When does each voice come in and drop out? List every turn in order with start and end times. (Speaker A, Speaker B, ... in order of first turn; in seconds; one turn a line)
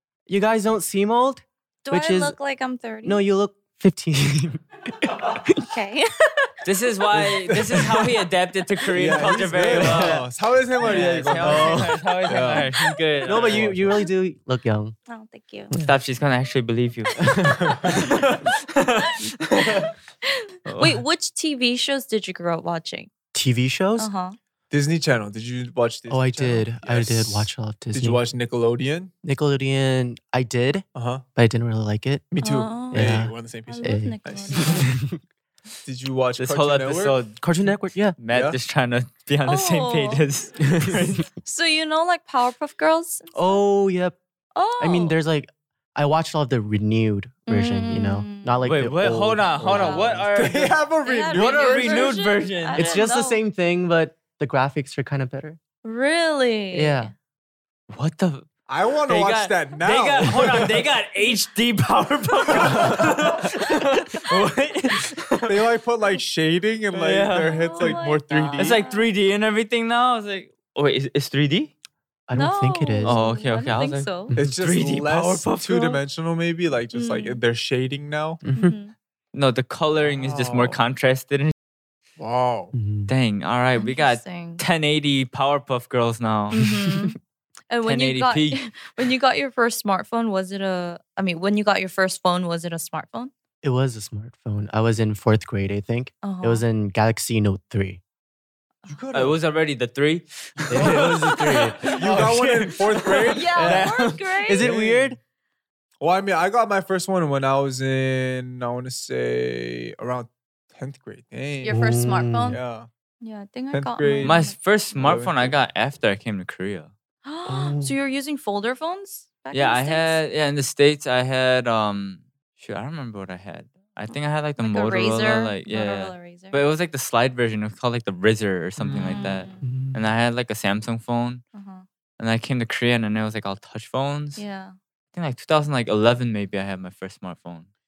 Speaker A: 0.3-2.4
Speaker B: 1.9-3.2
Speaker A: 3.0-5.6
Speaker B: 5.6-6.6
Speaker C: 6.7-10.2
Speaker D: 7.2-7.8
Speaker D: 8.9-12.7
Speaker A: 9.5-10.3
Speaker C: 10.8-13.8
Speaker A: 10.9-12.0
Speaker A: 13.2-15.0
Speaker D: 13.4-13.8
Speaker B: 15.1-15.7
Speaker C: 15.8-17.3
Speaker A: 17.2-17.8
Speaker D: 17.6-18.2
Speaker B: 17.7-18.0
Speaker C: 17.8-19.9
Speaker B: 20.3-23.1
Speaker C: 20.7-21.0
Speaker A: 23.3-24.1
Speaker B: 24.0-24.4
Speaker D: 24.7-29.1
Speaker A: 26.1-28.2
Speaker A: 29.2-32.3
Speaker D: 30.9-31.2
Speaker D: 32.3-34.9
Speaker B: 32.4-34.9
Speaker A: 32.9-35.2
Speaker D: 35.9-37.2
Speaker C: 36.4-37.4
Speaker A: 37.4-38.2
Speaker C: 38.2-41.3
Speaker D: 38.3-38.6
Speaker B: 39.5-40.3
Speaker A: 40.8-41.1
Speaker B: 41.4-43.6
Speaker A: 43.4-44.2
Speaker B: 44.5-45.2
Speaker A: 44.8-49.8
Speaker B: 47.5-48.6
Speaker C: 48.6-50.8
Speaker D: 49.6-52.1
Speaker B: 49.6-50.2
Speaker B: 51.0-53.4
Speaker C: 51.3-52.8
Speaker A: 52.7-55.6
Speaker B: 55.8-57.1
Speaker A: 56.7-57.1
Speaker C: 57.9-58.5
Speaker D: 58.7-60.9
Speaker C: 59.1-65.7
Speaker D: 62.6-63.1
Speaker D: 65.5-68.8
Speaker C: 66.9-68.0
Speaker B: 67.4-69.1
Speaker C: 68.6-71.7
Speaker A: 72.3-73.2
Speaker B: 72.3-74.3
Speaker C: 73.0-76.0
Speaker D: 74.3-78.4
Speaker B: 76.9-77.4
Speaker A: 78.4-78.7
Speaker B: 78.5-78.9
Speaker C: 79.3-81.5
Speaker D: 80.0-80.8
Speaker D: 82.2-82.7
Speaker A: 82.7-83.1
Speaker C: 83.1-86.7
Speaker B: 83.8-84.6
Speaker B: 86.5-87.2
Speaker A: 86.6-87.1
Speaker B: 87.7-93.3
Speaker C: 87.8-88.6
Speaker A: 93.6-98.0
Speaker B: 96.2-96.7
Speaker D: 98.9-99.4
Speaker C: 99.1-104.2
Speaker A: 100.7-102.3
Speaker D: 100.7-101.1
Speaker D: 101.9-103.9
Speaker B: 103.3-104.7
Speaker A: 103.6-103.9
Speaker A: 104.5-105.2
Speaker D: 104.6-105.2
Speaker D: 106.0-111.8
Speaker B: 111.6-112.6
Speaker A: 111.7-112.6
Speaker D: 112.5-112.9
Speaker B: 113.2-114.5
Speaker D: 113.7-114.4
Speaker C: 114.2-116.9
Speaker D: 115.0-115.6
Speaker B: 117.2-120.2
Speaker A: 117.5-118.0
Speaker C: 119.5-131.4
Speaker B: 124.6-126.6
Speaker D: 128.8-129.2
Speaker B: 128.9-129.7
Speaker A: 129.6-130.0
Speaker B: 131.5-131.8
Speaker C: 132.2-134.4
Speaker B: 134.4-134.8
Speaker C: 135.1-137.7